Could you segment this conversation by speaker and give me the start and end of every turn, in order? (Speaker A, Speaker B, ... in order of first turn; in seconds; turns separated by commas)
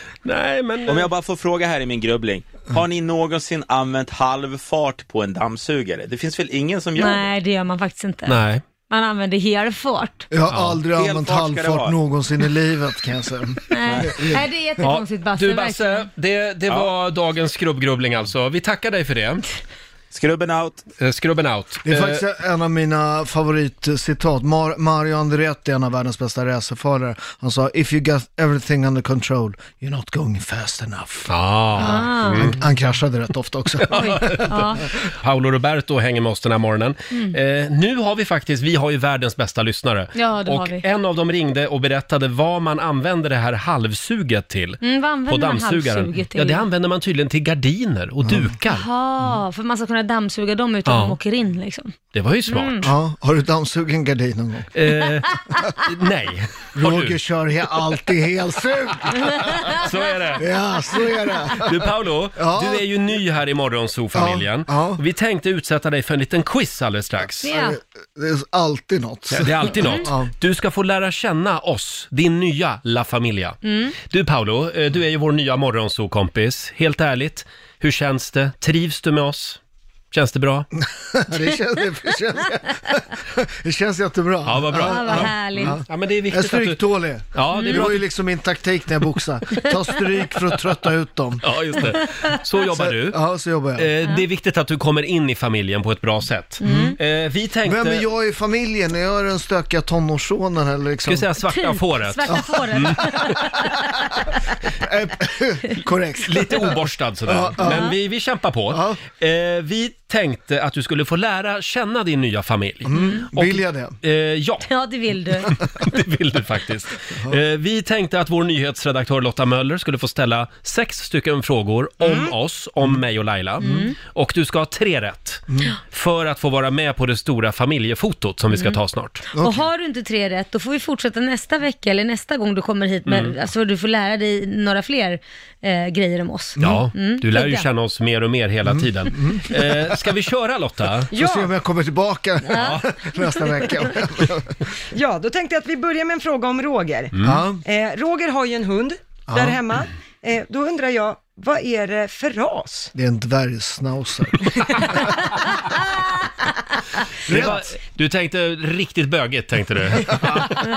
Speaker A: 0.2-1.1, Speaker B: 0.9-7.3, Speaker C: 7.0-8.4, Speaker A: 8.3-8.6, Speaker C: 8.9-10.3, Speaker D: 10.3-14.4, Speaker A: 10.5-10.8, Speaker B: 10.9-11.9, Speaker C: 13.7-16.1, Speaker B: 13.9-14.1, Speaker A: 14.8-19.4, Speaker B: 20.1-20.9, Speaker A: 21.0-22.2, Speaker D: 21.9-34.5, Speaker A: 31.3-32.6, Speaker C: 31.8-32.6, Speaker A: 33.8-48.9, Speaker C: 33.9-34.8, Speaker C: 37.1-37.4, Speaker C: 40.1-40.8, Speaker C: 44.8-46.6, Speaker D: 48.2-48.5, Speaker C: 48.7-51.9, Speaker A: 50.9-51.1, Speaker A: 52.1-52.9, Speaker C: 52.5-52.9, Speaker D: 52.8-54.7, Speaker A: 54.7-57.2, Speaker D: 56.7-59.8, Speaker A: 59.7-60.5, Speaker D: 60.4-62.9, Speaker A: 61.6-67.5, Speaker D: 64.1-65.0, Speaker C: 67.4-67.8, Speaker D: 67.4-70.3, Speaker A: 69.3-79.6, Speaker C: 69.8-70.1, Speaker C: 73.6-73.9, Speaker A: 80.1-80.7, Speaker D: 80.8-91.9, Speaker A: 84.4-86.8, Speaker C: 84.7-85.8, Speaker A: 87.3-88.0, Speaker C: 87.5-87.9, Speaker A: 91.4-93.2, Speaker D: 92.7-93.9, Speaker A: 93.8-98.0, Speaker C: 96.6-97.0, Speaker D: 96.6-97.0, Speaker D: 97.6-101.3, Speaker A: 101.0-103.3, Speaker C: 101.5-104.2, Speaker D: 102.3-103.4, Speaker D: 104.8-107.9, Speaker A: 106.2-114.7, Speaker C: 107.6-107.9, Speaker D: 108.7-109.0, Speaker D: 112.9-114.0, Speaker C: 113.0-113.2, Speaker C: 114.7-115.5, Speaker A: 115.5-129.2, Speaker D: 123.6-123.9, Speaker C: 123.6-123.9, Speaker D: 125.5-125.7, Speaker C: 128.5-128.8, Speaker C: 129.3-137.7, Speaker D: 129.3-129.7, Speaker A: 133.1-133.3, Speaker A: 136.6-141.1, Speaker D: 138.6-139.9, Speaker E: 141.1-141.5, Speaker D: 141.1-144.6, Speaker C: 142.5-142.8, Speaker A: 142.5-142.8, Speaker E: 144.9-152.9, Speaker A: 147.1-147.4, Speaker D: 147.2-147.6, Speaker D: 149.3-149.6, Speaker D: 152.9-154.8, Speaker D: 157.3-157.7, Speaker A: 157.3-160.5